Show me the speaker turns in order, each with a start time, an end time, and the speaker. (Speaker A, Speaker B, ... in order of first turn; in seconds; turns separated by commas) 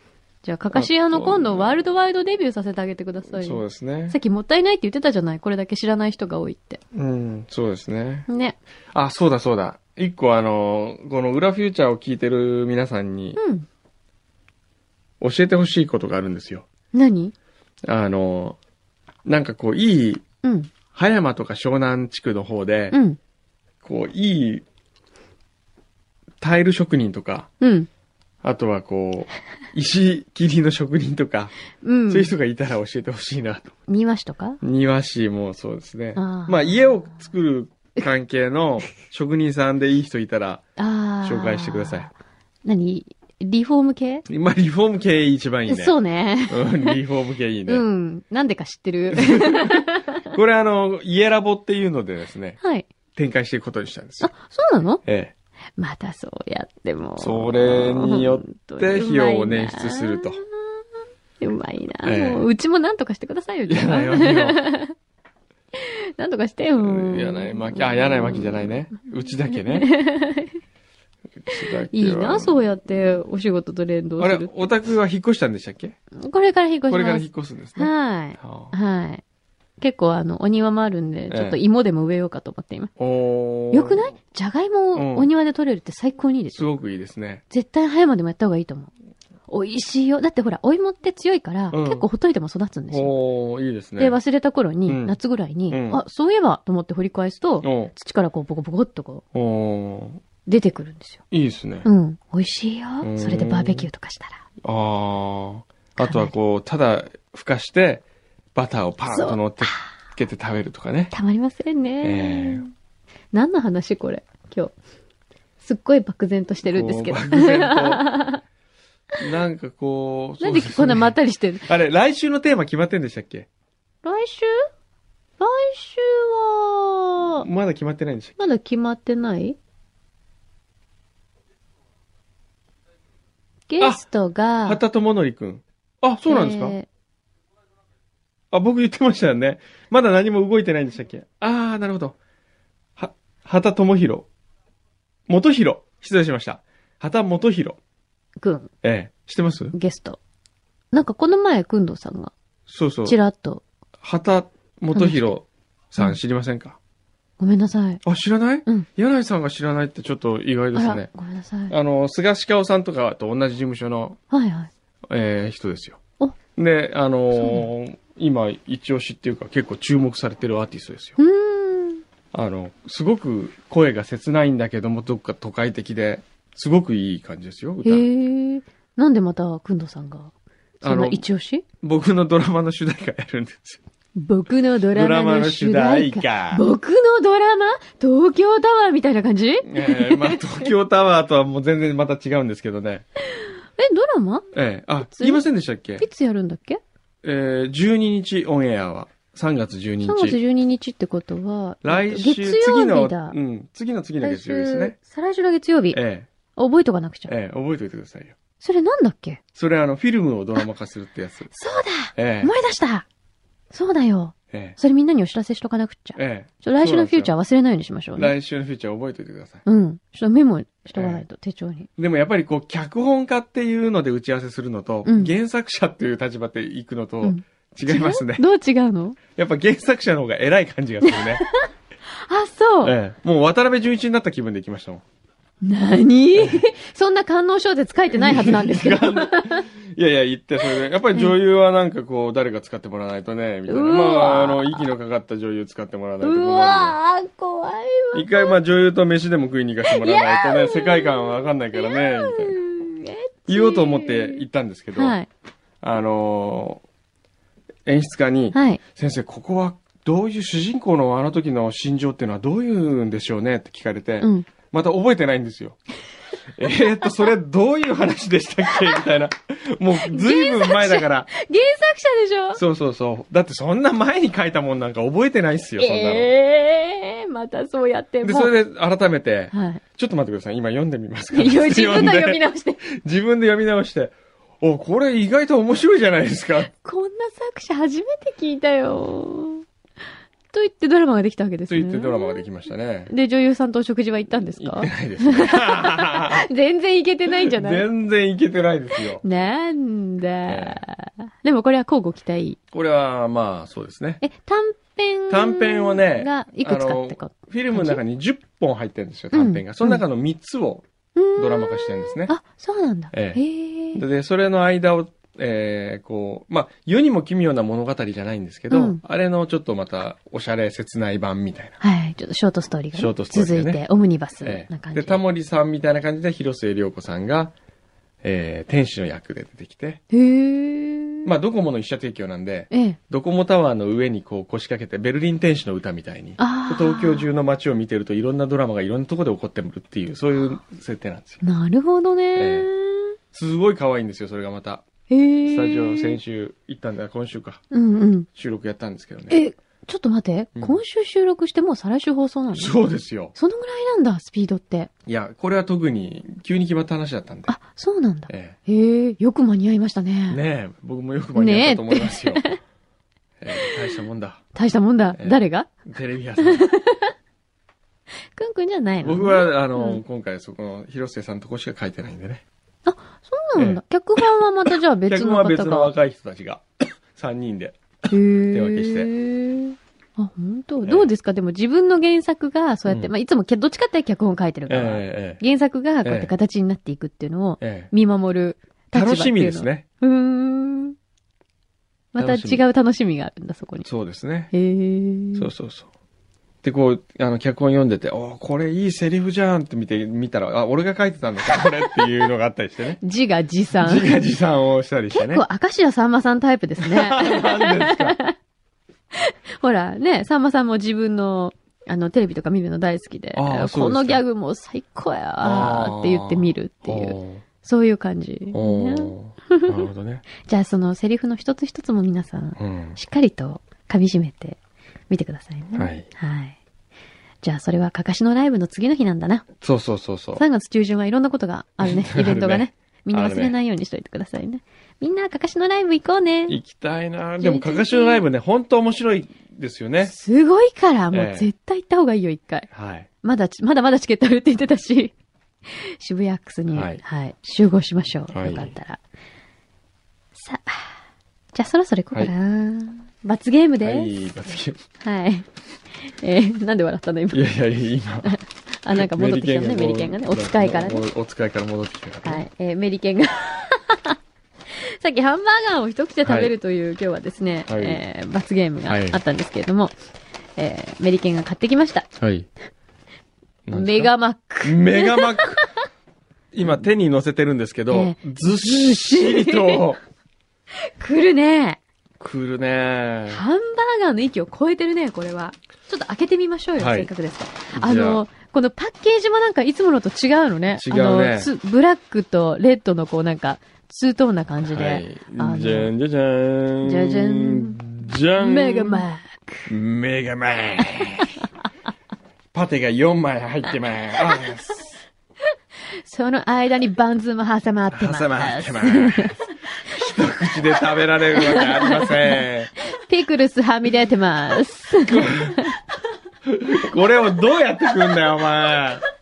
Speaker A: 0.4-6.8, Speaker B: 0.7-1.8, Speaker B: 3.3-4.2, Speaker B: 6.9-8.3, Speaker A: 8.3-8.6, Speaker B: 8.9-13.4, Speaker A: 13.4-13.7, Speaker B: 15.2-16.6, Speaker A: 16.9-17.3, Speaker B: 17.9-18.6, Speaker B: 19.2-20.2, Speaker A: 20.4-20.7, Speaker B: 20.9-23.0, Speaker A: 22.9-23.2, Speaker B: 23.8-24.6, Speaker B: 26.4-27.5, Speaker A: 27.6-27.9, Speaker B: 28.4-31.5, Speaker A: 31.8-32.3, Speaker B: 32.1-33.7, Speaker A: 33.9-34.6, Speaker B: 34.6-40.6, Speaker A: 36.1-36.9, Speaker A: 40.8-42.1, Speaker B: 41.2-42.1, Speaker A: 42.6-44.2, Speaker B: 44.3-45.9, Speaker A: 45.7-47.0, Speaker B: 46.5-47.8, Speaker A: 47.7-50.2, Speaker B: 49.1-52.6, Speaker A: 52.6-52.9, Speaker B: 53.1-54.3, Speaker A: 54.2-55.0, Speaker B: 55.0-55.3, Speaker A: 55.8-60.8, Speaker B: 57.2-60.4, Speaker A: 61.4-64.9, Speaker B: 62.0-62.5, Speaker B: 63.7-64.6, Speaker A: 65.7-68.8, Speaker B: 66.7-69.9, Speaker A: 69.5-70.6, Speaker B: 71.4-72.6, Speaker A: 71.5-74.7, Speaker B: 74.2-75.9, Speaker A: 76.2-79.2, Speaker B: 76.9-78.7, Speaker A: 79.8-82.9, Speaker B: 81.3-81.6, Speaker B: 83.0-84.1, Speaker A: 83.7-86.7, Speaker B: 84.9-85.3, Speaker B: 86.5-87.4, Speaker A: 87.5-88.9, Speaker A: 89.5-93.1, Speaker B: 91.7-92.0, Speaker B: 92.9-94.2, Speaker A: 94.0-99.2, Speaker B: 94.9-95.2, Speaker B: 95.7-96.0, Speaker B: 97.6-97.9, Speaker B: 99.3-100.2, Speaker A: 100.5-101.2, Speaker B: 101.3-101.9, Speaker A: 101.8-104.4, Speaker B: 103.0-103.9, Speaker B: 104.6-108.0, Speaker A: 106.0-106.3, Speaker B: 108.5-111.1, Speaker A: 109.1-109.9, Speaker A: 111.1-112.7, Speaker B: 112.0-112.6, Speaker A: 113.3-114.7, Speaker A: 115.6-118.4, Speaker B: 116.7-118.1, Speaker B: 119.2-123.5, Speaker A: 120.4-121.7, Speaker A: 124.0-124.6, Speaker A: 125.4-127.5, Speaker B: 127.4-128.3, Speaker A: 128.4-129.6, Speaker A: 133.7-134.8, Speaker B: 134.6-136.8, Speaker A: 136.3-136.9, Speaker B: 138.5-142.2, Speaker B: 143.0-144.3, Speaker B: 145.3-147.8, Speaker A: 148.4-148.7, Speaker B: 148.8-149.8, Speaker A: 149.7-150.2, Speaker A: 150.9-152.3, Speaker B: 152.7-153.2, Speaker A: 153.1-153.6, Speaker B: 154.0-156.8, Speaker A: 154.9-155.3, Speaker A: 157.4-158.0, Speaker B: 158.0-161.1, Speaker A: 160.7-161.7, Speaker B: 161.7-164.2, Speaker A: 164.3-164.7, Speaker B: 165.1-166.0, Speaker B: 166.5-171.2, Speaker A: 171.2-172.0, Speaker B: 172.3-178.0, Speaker A: 177.8-181.6, Speaker B: 180.8-181.2, Speaker B: 181.8-183.8, Speaker A: 184.2-190.5, Speaker B: 184.9-186.6, Speaker B: 189.6-193.0, Speaker A: 193.3-194.5, Speaker B: 194.5-196.0, Speaker A: 195.0-195.4, Speaker A: 196.0-196.8, Speaker B: 197.2-200.4, Speaker A: 200.0-203.4, Speaker B: 201.8-204.9, Speaker A: 204.2-206.0, Speaker B: 205.9-206.3, Speaker A: 206.5-207.3, Speaker B: 207.3-208.3, Speaker A: 208.6-209.4, Speaker B: 209.6-211.5, Speaker A: 211.5-213.1, Speaker B: 212.2-212.5, Speaker A: 213.7-218.3, Speaker B: 214.5-214.8, Speaker B: 216.2-217.3, Speaker B: 218.2-219.6, Speaker A: 219.6-221.9, Speaker B: 220.9-221.2, Speaker B: 222.0-228.4, Speaker A: 225.0-225.3, Speaker A: 227.2-229.2, Speaker B: 229.3-231.4, Speaker A: 231.0-232.9, Speaker B: 232.8-235.0, Speaker A: 235.6-239.7, Speaker B: 236.3-236.6, Speaker B: 238.1-247.0, Speaker A: 243.7-244.9, Speaker A: 246.2-248.6, Speaker B: 248.1-252.6, Speaker A: 249.8-255.3, Speaker B: 253.5-255.2, Speaker B: 255.8-256.8, Speaker B: 257.9-265.8, Speaker A: 258.5-258.8, Speaker A: 264.2-264.5, Speaker B: 266.6-271.3, Speaker A: 270.0-272.6, Speaker B: 272.5-276.3, Speaker A: 275.8-278.5, Speaker B: 278.2-286.7, Speaker A: 279.5-279.8, Speaker A: 281.3-282.8, Speaker A: 286.7-289.6, Speaker A: 290.5-292.4, Speaker B: 291.7-293.1, Speaker A: 293.1-297.9, Speaker B: 294.4-296.4, Speaker B: 297.3-299.2, Speaker A: 299.2-302.6, Speaker B: 300.5-300.8, Speaker B: 302.7-304.2, Speaker A: 304.2-308.0, Speaker B: 305.3-312.3, Speaker A: 309.3-310.0, Speaker A: 311.1-314.0, Speaker B: 313.1-313.4, Speaker B: 313.9-321.8, Speaker A: 318.7-319.0, Speaker A: 321.8-325.2, Speaker B: 322.9-323.8, Speaker B: 324.4-327.5, Speaker B: 328.2-330.0, Speaker A: 330.1-331.3, Speaker B: 331.2-341.4, Speaker A: 332.7-333.0, Speaker A: 336.4-337.3, Speaker A: 341.4-343.1, Speaker B: 342.4-342.7, Speaker B: 343.3-344.8, Speaker A: 345.1-346.2, Speaker B: 345.4-347.6, Speaker A: 347.7-348.3, Speaker B: 348.3-349.4, Speaker A: 349.3-352.8, Speaker B: 350.6-350.8, Speaker B: 352.5-353.3, Speaker A: 353.3-354.9, Speaker B: 355.1-357.5, Speaker A: 357.5-360.4, Speaker B: 358.3-358.6, Speaker B: 360.3-362.4, Speaker A: 361.3-362.6, Speaker B: 363.4-364.4, Speaker A: 364.5-365.7, Speaker B: 365.1-366.6, Speaker A: 366.4-367.1, Speaker A: 368.3-370.0, Speaker B: 369.0-372.4, Speaker A: 372.9-375.9, Speaker B: 373.6-379.1, Speaker A: 378.1-391.0, Speaker B: 380.8-381.1, Speaker B: 384.7-385.4, Speaker B: 386.0-386.3, Speaker B: 387.6-387.9, Speaker B: 388.9-389.8, Speaker A: 392.1-393.9, Speaker B: 392.2-392.6, Speaker B: 393.8-394.5, Speaker A: 394.5-395.5, Speaker B: 395.3-395.9, Speaker B: 396.6-403.0, Speaker A: 403.0-404.1, Speaker B: 403.8-405.4, Speaker A: 405.1-408.3, Speaker B: 406.8-408.2, Speaker A: 409.1-419.7, Speaker B: 413.3-414.2, Speaker B: 415.4-417.4, Speaker B: 418.5-420.2, Speaker A: 420.4-424.6, Speaker B: 422.6-423.0, Speaker A: 425.1-426.6, Speaker B: 425.8-426.1, Speaker A: 427.4-429.5, Speaker B: 429.6-430.4, Speaker A: 430.4-436.6, Speaker B: 431.8-433.5, Speaker B: 436.5-440.1, Speaker A: 437.4-438.2, Speaker A: 440.0-442.7, Speaker B: 441.1-441.5, Speaker B: 442.7-443.1, Speaker A: 443.2-445.1, Speaker A: 445.7-449.0, Speaker B: 446.7-447.0, Speaker B: 448.3-448.7, Speaker A: 450.3-450.9, Speaker A: 451.5-454.2, Speaker B: 453.8-454.8, Speaker A: 455.0-455.5, Speaker A: 456.1-457.4, Speaker B: 457.3-458.4, Speaker A: 458.2-461.0, Speaker B: 458.9-462.4, Speaker A: 462.2-464.1, Speaker A: 464.8-469.9, Speaker B: 466.2-466.5, Speaker B: 467.7-468.0, Speaker B: 468.9-469.2, Speaker A: 470.6-472.1, Speaker B: 472.2-472.5, Speaker B: 473.7-475.6, Speaker A: 473.7-475.5, Speaker B: 476.5-480.0, Speaker A: 477.9-479.8, Speaker A: 480.9-481.8, Speaker B: 482.2-483.4, Speaker A: 483.3-495.9, Speaker B: 486.8-487.1, Speaker B: 487.7-488.2, Speaker B: 490.8-491.5, Speaker B: 494.6-499.1, Speaker A: 496.8-499.7, Speaker B: 499.7-501.3, Speaker B: 502.5-505.0, Speaker A: 503.7-504.5, Speaker A: 506.0-509.4, Speaker B: 507.9-512.7, Speaker A: 511.3-515.8, Speaker B: 515.0-515.6, Speaker B: 516.5-519.0